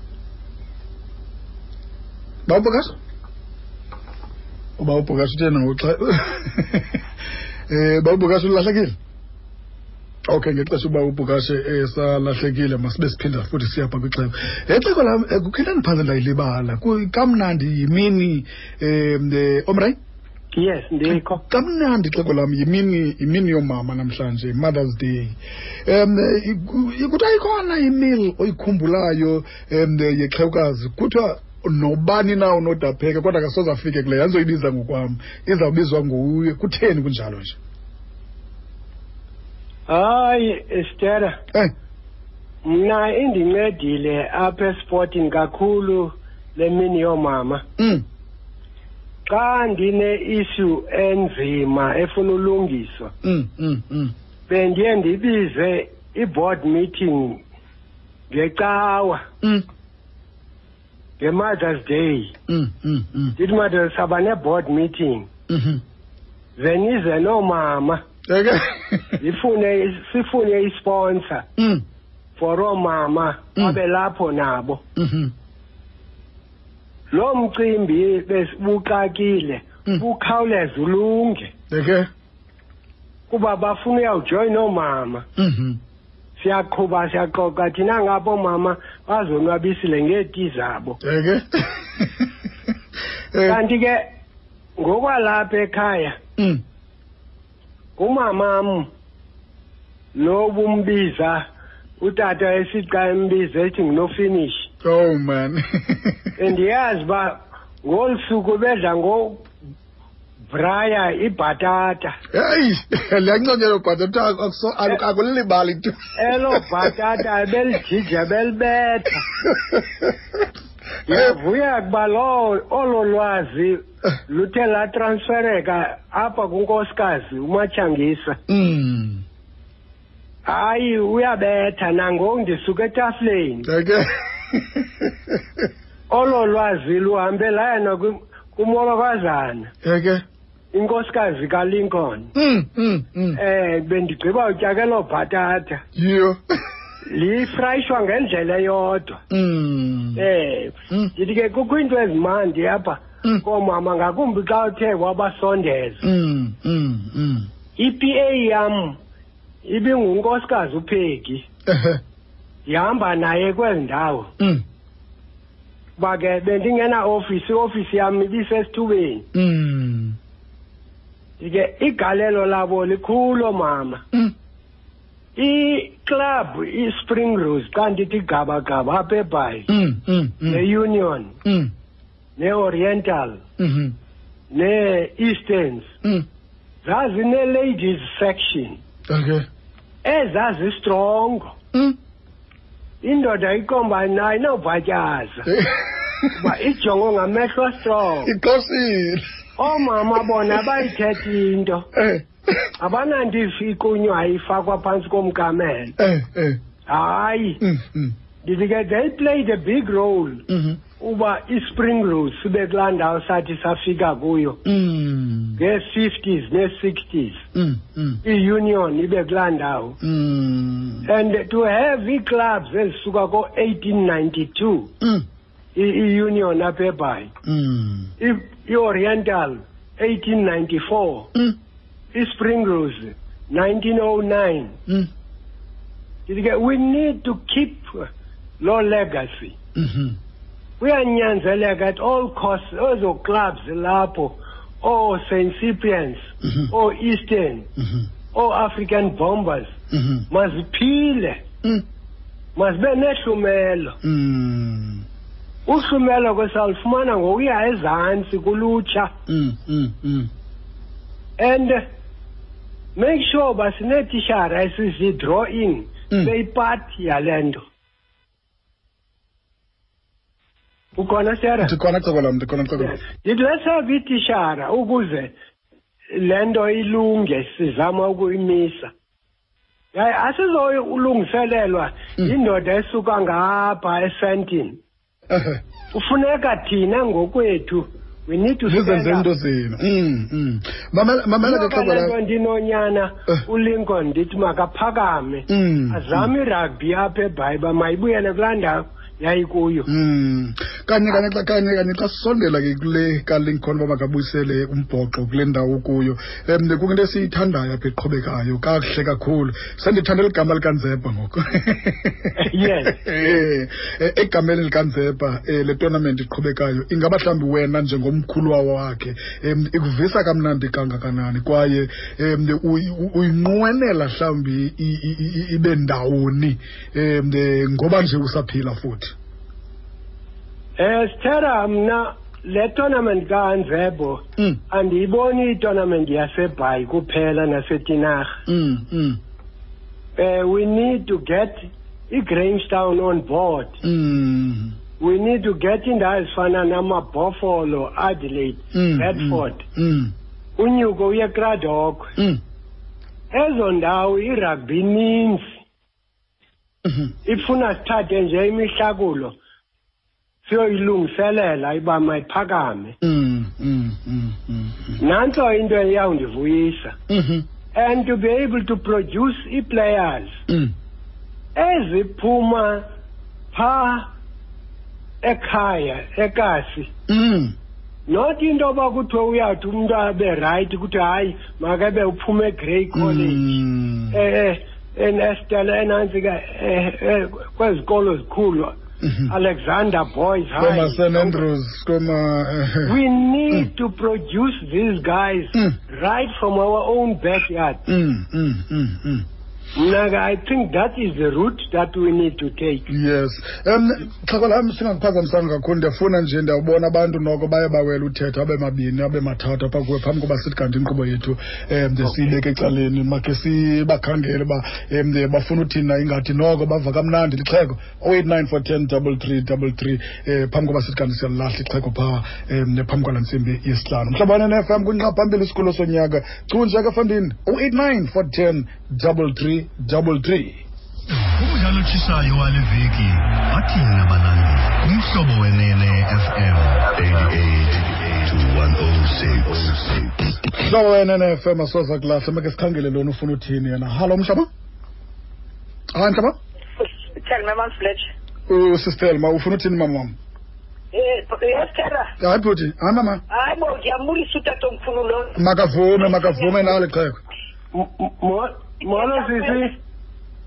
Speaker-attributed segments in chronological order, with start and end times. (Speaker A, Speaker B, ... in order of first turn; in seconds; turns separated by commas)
Speaker A: 2.5-2.9, Speaker A: 4.8-7.0, Speaker A: 7.7-8.9, Speaker A: 10.3-20.0, Speaker B: 20.5-21.4, Speaker A: 21.1-37.6, Speaker B: 39.9-41.4, Speaker B: 42.6-47.6, Speaker A: 47.8-48.0, Speaker B: 49.3-53.1, Speaker A: 53.2-54.1, Speaker B: 54.5-57.4, Speaker B: 58.3-59.2, Speaker B: 61.2-62.3, Speaker A: 62.5-63.4, Speaker B: 63.4-65.3, Speaker A: 65.5-65.8, Speaker B: 66.6-68.0, Speaker A: 68.3-69.2, Speaker B: 69.2-71.5, Speaker A: 71.6-71.8, Speaker B: 72.4-74.8, Speaker A: 75.0-75.3, Speaker B: 77.1-81.5, Speaker A: 81.7-82.1, Speaker B: 83.3-85.2, Speaker A: 85.3-85.8, Speaker B: 86.4-91.0, Speaker A: 91.0-92.3, Speaker A: 93.3-93.6, Speaker B: 93.4-94.0, Speaker B: 94.8-96.2, Speaker A: 96.4-96.6, Speaker B: 98.0-98.9, Speaker B: 100.1-101.5, Speaker B: 102.0-104.7, Speaker A: 104.8-106.3, Speaker B: 106.4-109.5, Speaker B: 110.5-112.2, Speaker A: 112.3-116.9, Speaker B: 116.2-119.2, Speaker A: 119.4-120.2, Speaker B: 121.0-128.4, Speaker A: 121.1-121.3, Speaker A: 128.5-129.2, Speaker B: 130.4-133.7, Speaker A: 133.6-135.6, Speaker B: 136.1-139.7, Speaker A: 139.8-140.2, Speaker B: 140.7-142.3, Speaker A: 142.3-143.4, Speaker B: 143.3-145.8, Speaker A: 145.9-146.4, Speaker B: 147.1-149.2, Speaker A: 149.3-150.3, Speaker B: 150.2-156.0, Speaker A: 156.0-157.5, Speaker B: 157.8-159.0, Speaker B: 159.6-161.4, Speaker A: 161.7-162.0, Speaker B: 162.7-164.3, Speaker A: 164.4-164.6, Speaker B: 166.0-169.2, Speaker A: 169.3-170.2, Speaker B: 171.4-174.0, Speaker B: 175.3-179.7, Speaker A: 179.7-180.6, Speaker B: 180.5-181.3, Speaker A: 181.4-181.7, Speaker B: 182.4-183.4, Speaker A: 183.6-183.9, Speaker B: 184.5-185.9, Speaker B: 186.8-188.8, Speaker A: 189.1-189.5, Speaker B: 190.0-191.5, Speaker B: 193.0-195.5, Speaker A: 195.5-196.3, Speaker B: 196.3-198.3, Speaker A: 198.2-200.8, Speaker B: 199.6-201.9, Speaker A: 201.9-202.7, Speaker B: 202.8-205.9, Speaker A: 206.0-206.6, Speaker B: 206.8-207.6, Speaker A: 207.6-208.1, Speaker B: 208.4-210.4, Speaker A: 210.5-210.8, Speaker B: 211.0-214.6, Speaker A: 214.6-215.6, Speaker B: 215.6-217.4, Speaker A: 217.5-218.2, Speaker B: 218.2-220.0, Speaker A: 220.0-221.1, Speaker B: 221.0-224.9, Speaker A: 225.0-225.2, Speaker B: 225.7-227.3, Speaker A: 227.4-228.1, Speaker B: 228.2-231.3, Speaker B: 232.1-234.8, Speaker B: 236.3-238.1, Speaker B: 238.6-239.6, Speaker A: 239.7-240.2, Speaker B: 240.8-247.7, Speaker A: 246.4-246.7, Speaker A: 247.8-248.1, Speaker B: 248.3-249.8, Speaker A: 249.9-250.3, Speaker B: 250.3-251.4, Speaker B: 252.6-254.0, Speaker A: 254.0-255.0, Speaker B: 255.7-259.1, Speaker A: 259.3-260.3, Speaker B: 261.4-261.8, Speaker B: 262.9-267.6, Speaker B: 271.0-271.7, Speaker A: 271.6-273.0, Speaker B: 272.8-275.3, Speaker B: 276.1-278.9, Speaker B: 279.9-284.8, Speaker A: 285.3-285.6, Speaker B: 285.9-289.3, Speaker A: 288.6-292.1, Speaker B: 291.4-299.9, Speaker A: 295.5-296.3, Speaker A: 299.9-329.1, Speaker B: 312.4-313.0, Speaker B: 330.8-338.4, Speaker A: 338.4-339.2, Speaker B: 340.2-343.8, Speaker A: 343.8-344.8, Speaker B: 345.0-349.6, Speaker A: 348.7-350.1, Speaker B: 350.6-352.1, Speaker B: 353.3-355.5, Speaker A: 356.8-357.1, Speaker B: 357.2-359.3, Speaker B: 360.4-362.9, Speaker A: 363.0-365.0, Speaker B: 365.0-366.9, Speaker A: 367.1-367.4, Speaker B: 367.7-370.4, Speaker A: 370.5-370.7, Speaker B: 371.6-372.9, Speaker B: 373.5-374.1, Speaker B: 375.2-376.9, Speaker A: 377.1-377.5, Speaker B: 378.1-383.6, Speaker A: 382.9-384.2, Speaker B: 384.1-388.8, Speaker A: 389.0-389.3, Speaker B: 389.3-391.4, Speaker A: 390.6-392.9, Speaker B: 392.8-397.8, Speaker A: 397.9-399.2, Speaker B: 399.7-402.9, Speaker A: 402.9-430.6, Speaker C: 431.3-440.3, Speaker A: 440.5-444.5, Speaker A: 445.9-446.4, Speaker D: 447.2-448.1, Speaker A: 448.5-450.2, Speaker D: 450.9-452.1, Speaker A: 452.2-453.2, Speaker D: 453.3-455.4, Speaker A: 455.3-457.2, Speaker B: 457.7-459.8, Speaker D: 458.8-459.6